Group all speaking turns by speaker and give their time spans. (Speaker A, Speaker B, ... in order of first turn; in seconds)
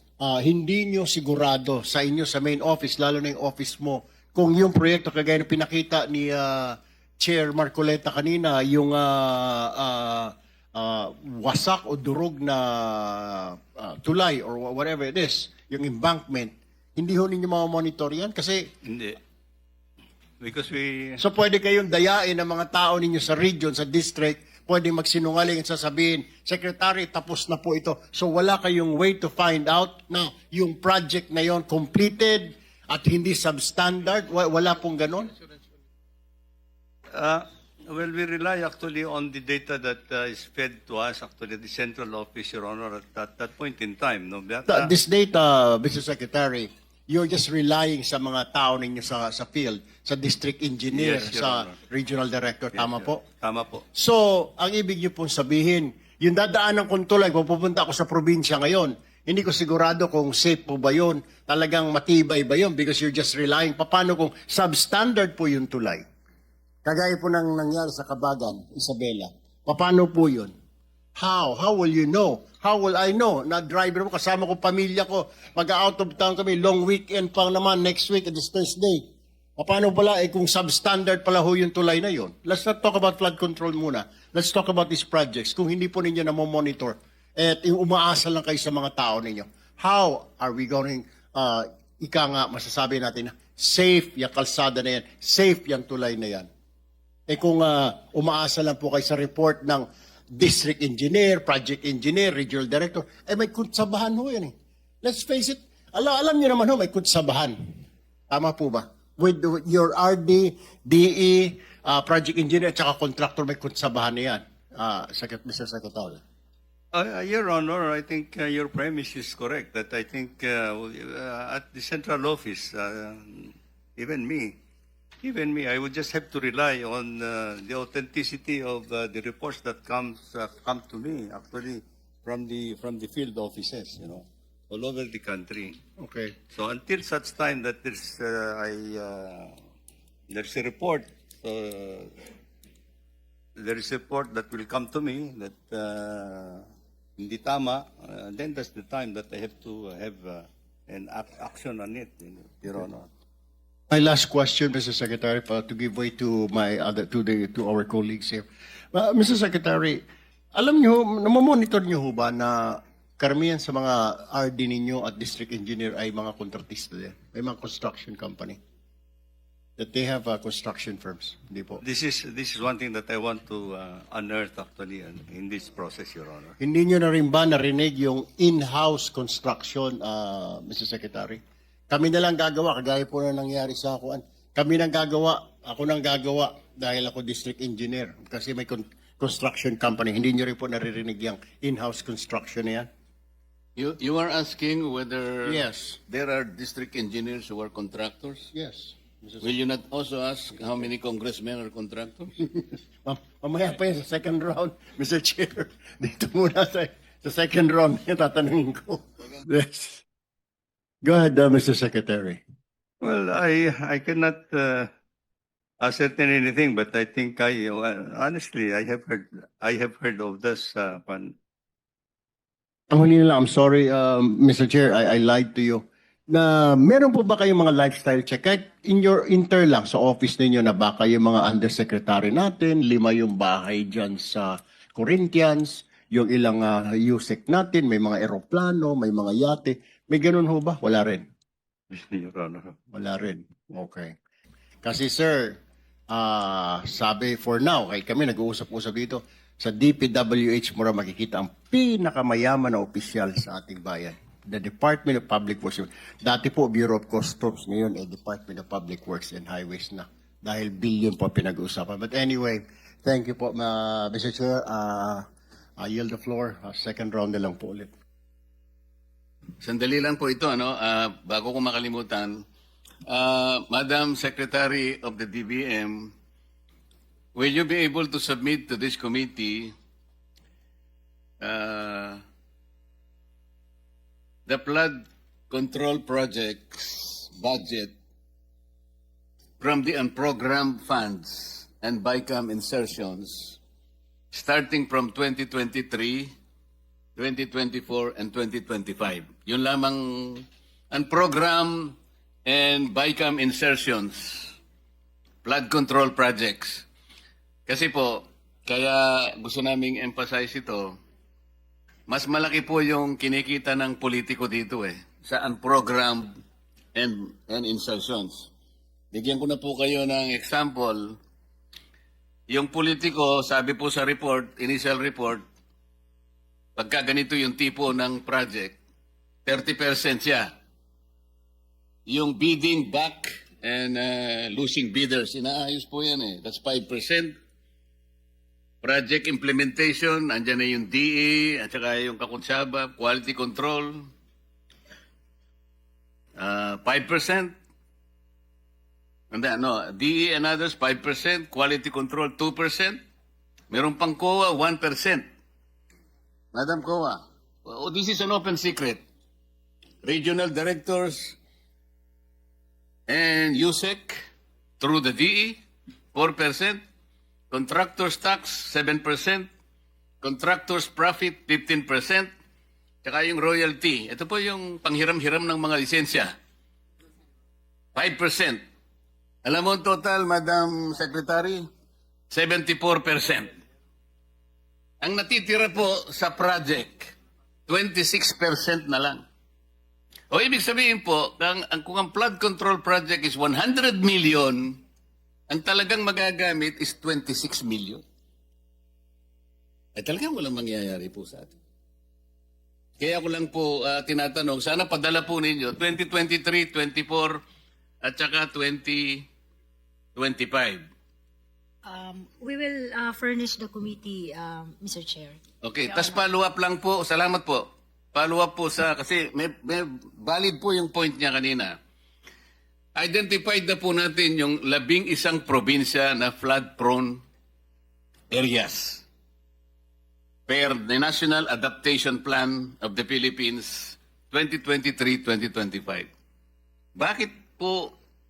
Speaker A: 0.2-18.6, 21.2-35.3, 44.7-53.2, 53.9-66.0, 66.8-70.5, 71.2-79.0, 79.6-96.5, 97.3-107.5, 108.3-116.2, 136.0-136.3, 153.9-160.0, 160.5-168.6, 169.8-171.8, 176.6-192.9, 195.4-196.0, 198.5-199.5, 202.4-210.0, 211.0-212.4, 222.9-241.2, 242.9-244.1, 244.8-245.6, 246.1-265.2, 265.8-267.9
Speaker B: 18.8-19.2, 20.4-21.2, 37.1-44.9, 50.9-51.8, 52.7-53.8, 116.9-124.5, 125.2-135.8, 136.5-139.6, 140.3-142.2, 143.6-146.7, 147.2-153.1, 171.8-176.6, 213.0-214.9, 215.8-221.3, 241.9-242.8
Speaker C: 193.8-198.5, 199.4-202.3, 269.6-272.4, 273.1-276.1, 277.3-279.7, 281.4-282.2, 284.5-287.9, 289.6-293.6, 294.3-296.3, 297.1-304.6, 305.4-306.9, 307.7-311.0, 312.1-316.3, 316.9-318.5, 319.1-321.2, 322.5-325.4, 326.8-328.8, 329.4-330.5, 332.1-337.3, 338.8-344.1, 346.4-347.5, 349.3-353.0, 353.7-355.2, 356.5-359.0, 360.0-361.4, 363.1-364.2, 364.8-365.6, 366.1-366.8, 367.5-369.5, 370.2-372.3, 373.0-376.3, 377.9-378.6, 379.4-381.6, 382.3-383.5, 385.0-387.1, 387.7-389.2, 390.3-394.8, 395.5-398.0, 399.9-401.5, 403.0-407.4, 408.0-409.2, 410.1-410.9, 415.6-421.8, 422.9-427.2, 428.3-429.0, 430.5-436.1, 436.9-437.9
Speaker D: 411.9-416.2